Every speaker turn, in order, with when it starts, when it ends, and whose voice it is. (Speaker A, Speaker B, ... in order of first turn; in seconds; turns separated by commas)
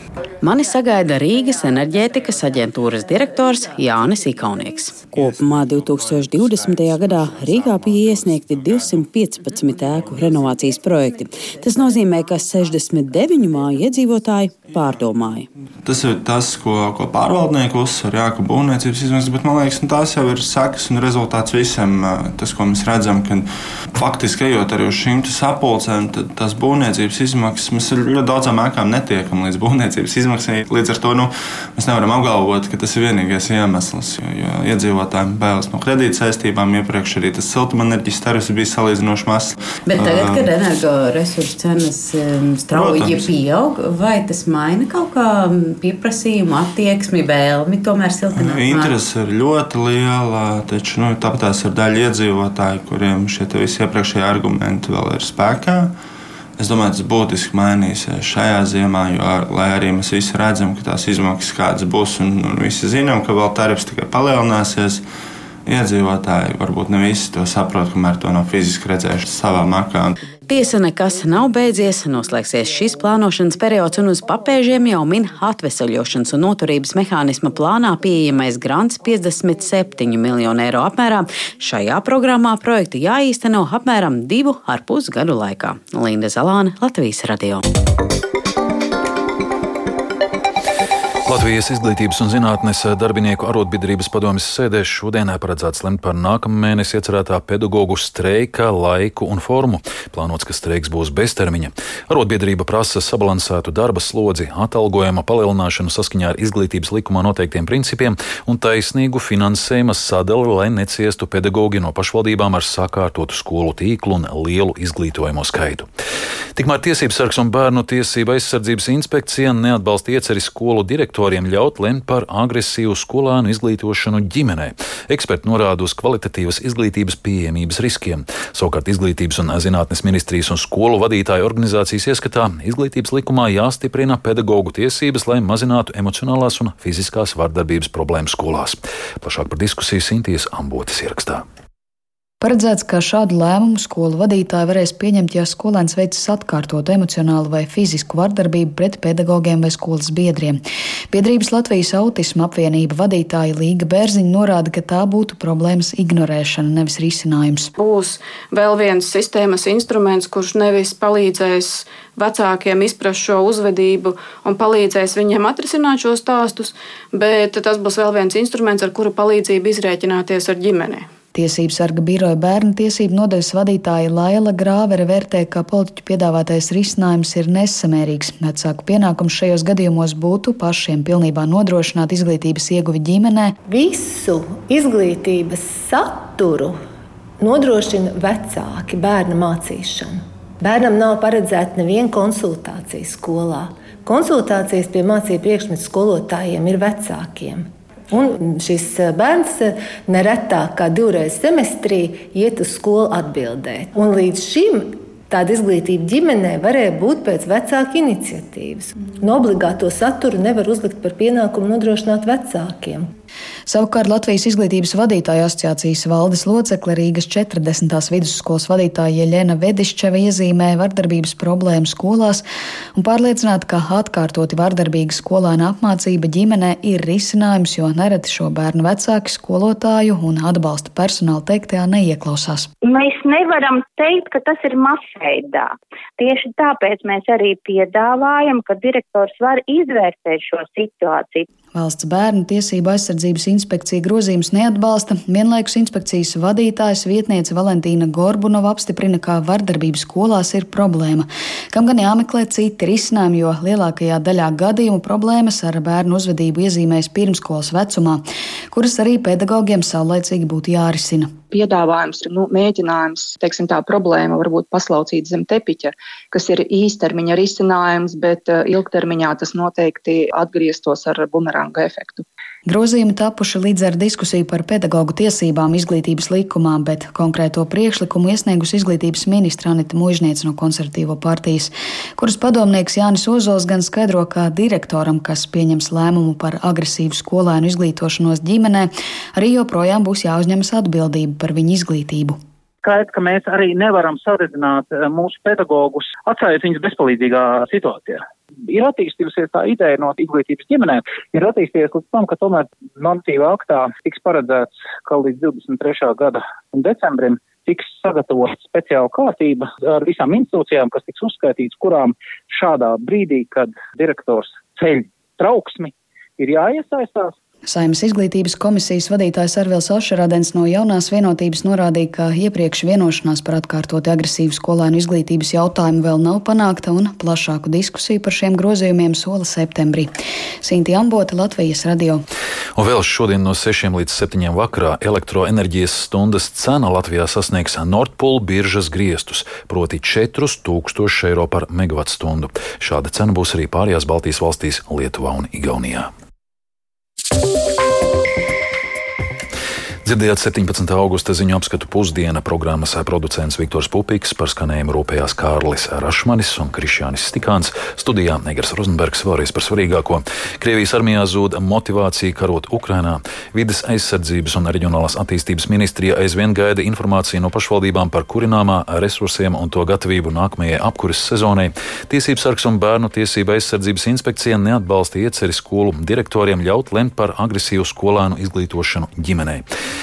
Speaker A: 0.4-15.5, Speaker B: 15.8-40.5, Speaker A: 39.9-49.0, Speaker B: 42.7-43.3, Speaker B: 48.3-56.0, Speaker B: 56.6-65.0, Speaker B: 65.7-70.2, Speaker A: 70.5-87.6, Speaker C: 91.3-115.9, Speaker C: 116.6-141.4, Speaker D: 142.4-150.6, Speaker D: 151.1-157.7, Speaker E: 157.8-171.1, Speaker D: 171.3-183.6, Speaker F: 183.7-186.8, Speaker F: 187.4-213.1, Speaker D: 213.7-222.4, Speaker D: 223.0-232.7, Speaker G: 232.8-241.5, Speaker D: 241.7-261.4, Speaker H: 261.5-272.2, Speaker D: 272.7-292.4, Speaker I: 292.8-317.3, Speaker D: 317.7-330.1, Speaker D: 330.6-332.2, Speaker C: 332.8-346.1, Speaker C: 350.1-379.7